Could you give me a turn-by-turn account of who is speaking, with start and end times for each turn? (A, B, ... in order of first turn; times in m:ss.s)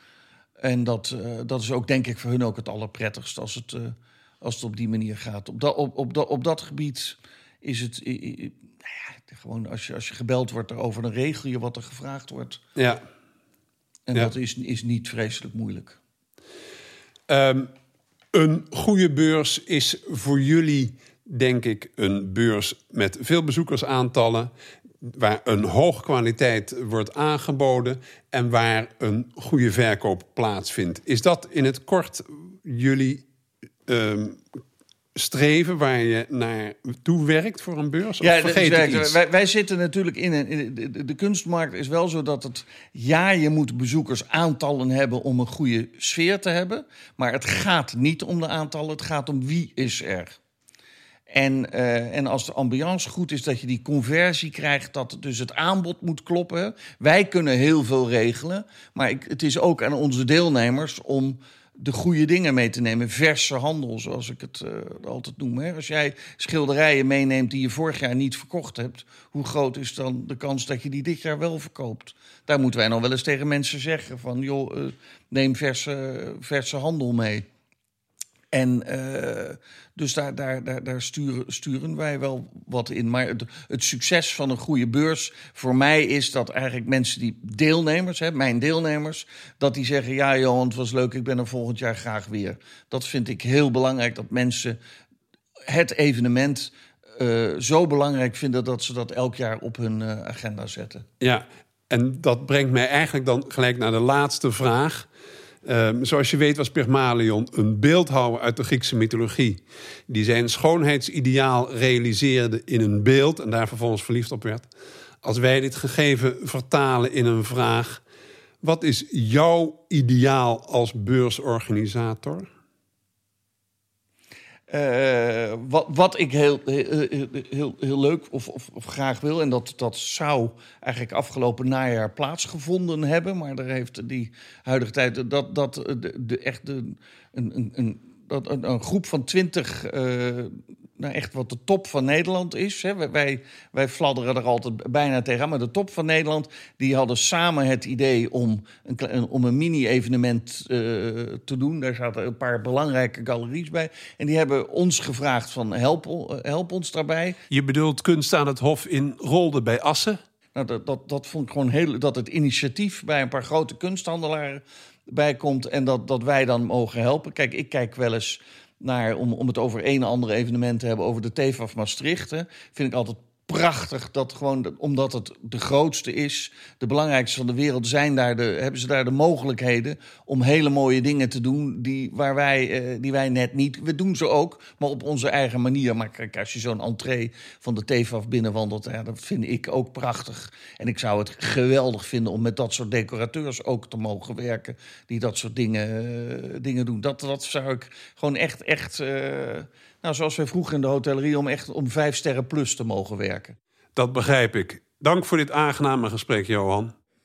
0:00.6-0:12.6 A
0:12.8-0:13.0 B
0:14.1-0:16.0 A
0:17.3-0:17.7 B
0:18.3-0:24.5 B
0:25.0-0:33.2 B
0:33.9-0:34.4 B
0:35.2-0:39.2 B
0:38.2-0:50.4 A
0:51.3-1:17.4 A
1:18.5-1:34.8 A
1:35.7-1:41.1 A
1:41.2-1:45.1 B
1:45.6-1:54.7 B
1:55.2-1:58.0 B
1:58.6-2:02.5 B
2:04.7-2:37.4 A
2:37.5-2:40.2 B
2:40.6-3:23.6 A
3:24.0-3:26.9 B